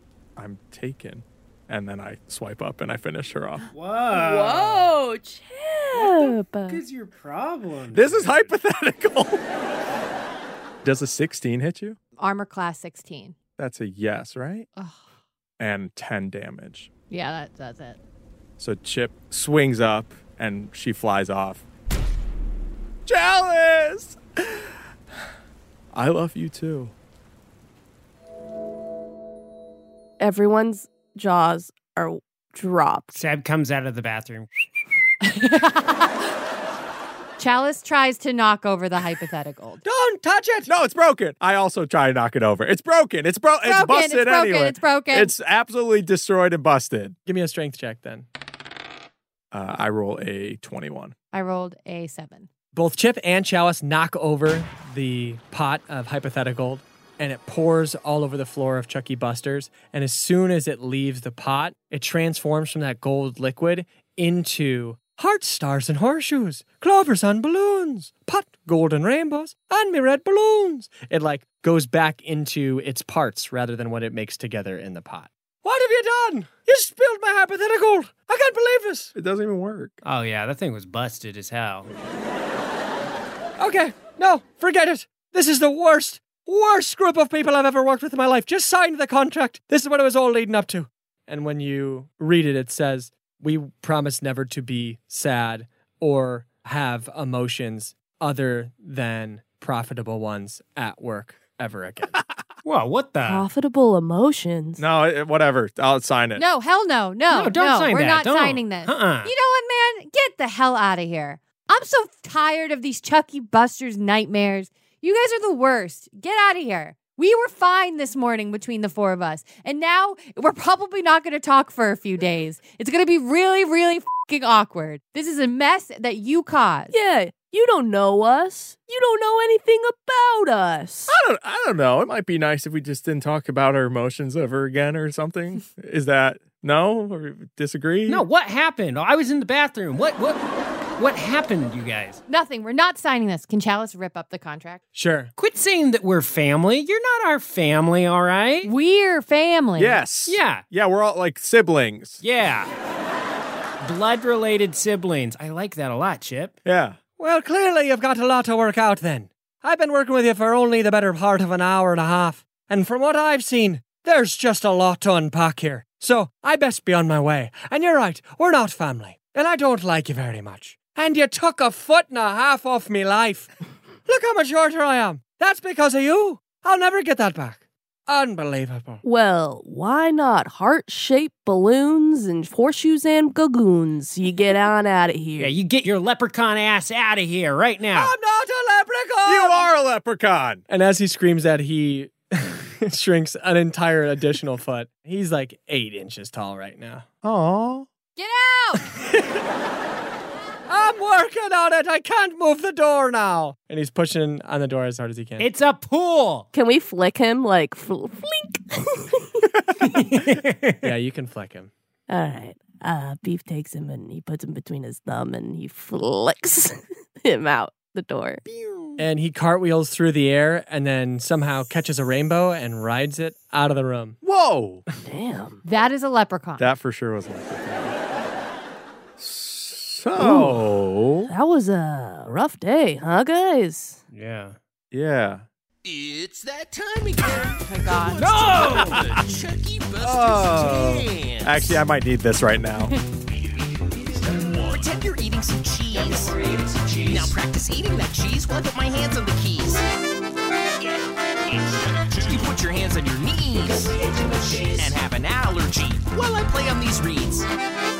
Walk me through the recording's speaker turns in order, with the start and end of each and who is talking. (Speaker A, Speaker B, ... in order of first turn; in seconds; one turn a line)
Speaker A: 0.3-3.6
Speaker B: 3.7-4.9
Speaker C: 4.1-6.8
Speaker B: 5.9-8.5
Speaker A: 7.9-9.4
Speaker A: 10.8-12.0
Speaker D: 12.2-13.4
Speaker A: 13.6-14.7
Speaker D: 14.8-15.0
Speaker A: 15.6-16.9
Speaker D: 17.1-18.0
Speaker A: 18.6-21.6
Speaker A: 23.1-24.8
Speaker A: 25.9-26.9
Speaker C: 30.2-33.1
Speaker B: 33.1-34.5
Speaker D: 35.2-36.3
Speaker D: 37.4-39.8
Speaker E: 39.8-40.7
Speaker A: 40.6-47.1
Speaker D: 43.6-45.3
Speaker E: 47.2-48.2
Speaker A: 49.5-51.1
Speaker D: 51.3-52.5
Speaker E: 52.7-79.1
Speaker A: 79.1-79.9
Speaker B: 80.0-81.9
Speaker E: 83.6-102.2
Speaker B: 102.6-103.5
Speaker C: 103.2-104.8
Speaker A: 104.8-106.4
Speaker D: 106.4-126.9
Speaker B: 107.3-109.3
Speaker C: 126.9-131.1
Speaker A: 131.1-138.2
Speaker B: 138.1-142.2
Speaker D: 142.3-144.8
Speaker E: 144.9-145.3
Speaker B: 145.4-148.7
Speaker D: 148.6-150.0
Speaker A: 149.8-152.2
Speaker B: 150.2-150.6
Speaker B: 152.2-152.7
Speaker B: 153.8-156.5
Speaker A: 156.6-157.0
Speaker E: 157.2-173.5
Speaker E: 174.1-179.0
Speaker C: 179.0-185.5
Speaker B: 185.4-188.1
Speaker E: 187.9-189.6
Speaker A: 189.2-190.6
Speaker E: 190.7-197.1
Speaker A: 197.2-197.9
Speaker D: 198.2-198.9
Speaker E: 200.7-205.5
Speaker B: 205.4-206.5
Speaker C: 206.5-209.6
Speaker B: 209.8-210.9
Speaker E: 210.8-211.7
Speaker C: 212.1-218.4
Speaker E: 219.0-224.2
Speaker A: 224.2-224.8
Speaker C: 225.0-225.6
Speaker D: 225.6-226.7
Speaker A: 226.6-227.9
Speaker A: 229.2-231.3
Speaker C: 230.2-230.6
Speaker C: 231.3-234.0
Speaker B: 234.1-234.6
Speaker A: 234.9-235.4
Speaker F: 235.8-241.8
Speaker D: 237.6-238.3
Speaker B: 238.2-239.1
Speaker A: 238.6-239.1
Speaker A: 240.0-242.9
Speaker F: 243.7-249.8
Speaker F: 250.8-257.5